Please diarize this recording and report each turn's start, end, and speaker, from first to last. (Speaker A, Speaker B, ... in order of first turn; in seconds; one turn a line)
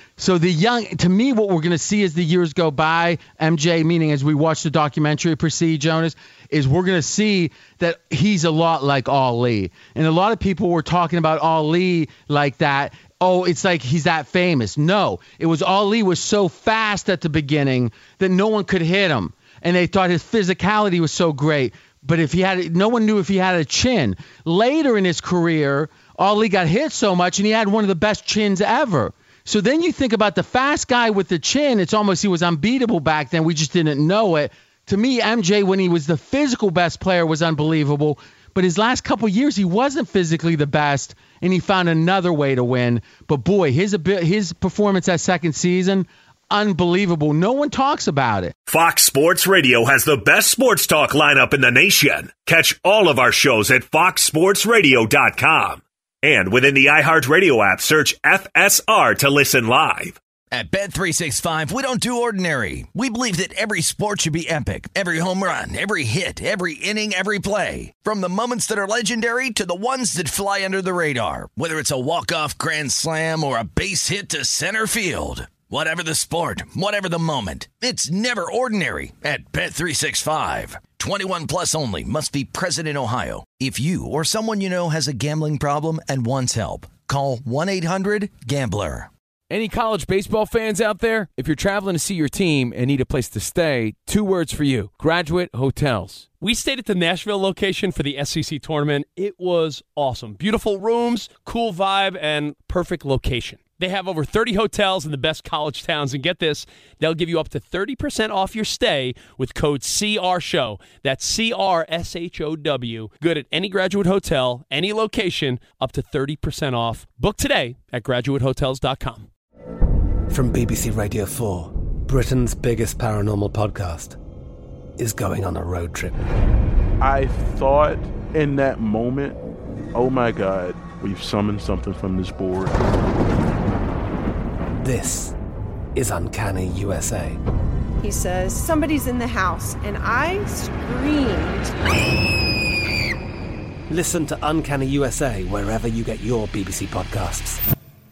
Speaker A: 0.2-48.5
Speaker B: 48.7-60.2
Speaker C: 60.5-89.1
Speaker D: 89.5-96.3
Speaker E: 96.4-119.3
Speaker F: 120.3-124.2
Speaker F: 125.0-126.2
Speaker G: 127.0-129.4
Speaker G: 129.9-132.8
Speaker F: 134.8-135.3
Speaker F: 135.9-137.4
Speaker H: 138.0-141.7
Speaker F: 143.9-147.6